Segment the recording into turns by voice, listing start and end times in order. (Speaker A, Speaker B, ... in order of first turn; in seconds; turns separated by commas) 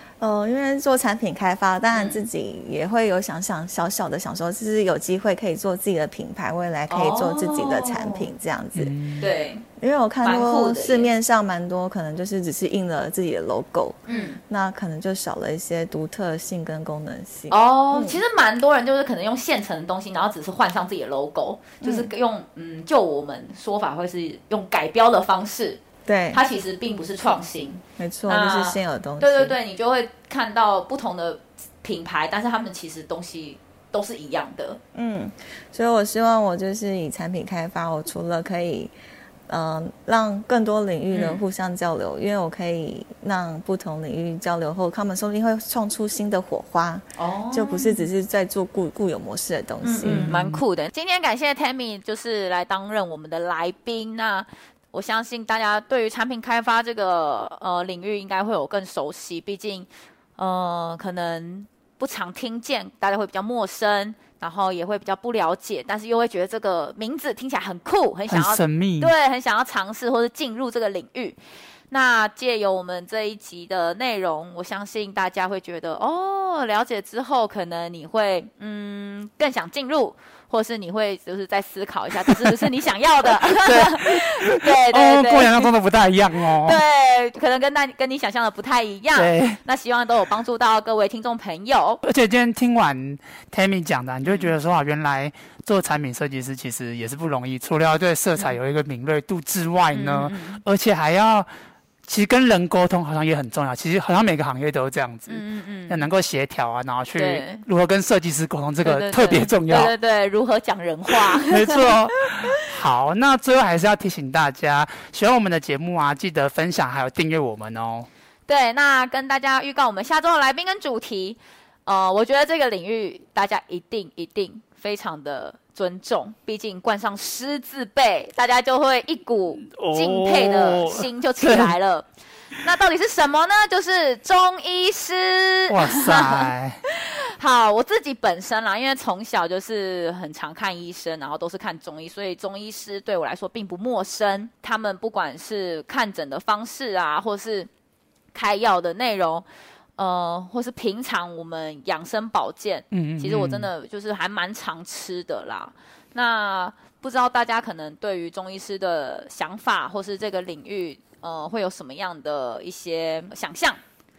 Speaker A: 0.2-8.9, Speaker B: 1.9-2.2, Speaker B: 6.9-8.3, Speaker C: 8.8-9.2, Speaker B: 9.2-9.6, Speaker A: 9.8-18.2, Speaker B: 10.2-11.1, Speaker B: 14.1-14.4, Speaker B: 17.5-25.8, Speaker A: 21.8-22.1, Speaker A: 26.1-26.4, Speaker B: 26.3-34.8, Speaker A: 28.0-29.6, Speaker A: 34.9-38.9, Speaker A: 39.5-50.3, Speaker B: 41.1-41.4, Speaker B: 47.2-48.0, Speaker B: 49.8-71.4, Speaker C: 50.0-50.6, Speaker C: 68.3-69.1, Speaker B: 71.9-85.7, Speaker C: 82.3-82.7, Speaker C: 83.3-86.8, Speaker B: 86.6-92.0, Speaker C: 89.1-89.6, Speaker C: 92.0-101.5, Speaker B: 94.2-94.5, Speaker B: 99.9-100.6, Speaker C: 102.0-109.9, Speaker B: 105.3-106.1, Speaker B: 107.1-107.6, Speaker B: 108.8-112.4, Speaker C: 111.1-118.1, Speaker B: 118.5-132.1, Speaker C: 129.6-131.7, Speaker B: 132.6-147.7, Speaker C: 135.7-136.8, Speaker B: 148.3-149.4, Speaker B: 150.0-163.8, Speaker C: 152.9-153.7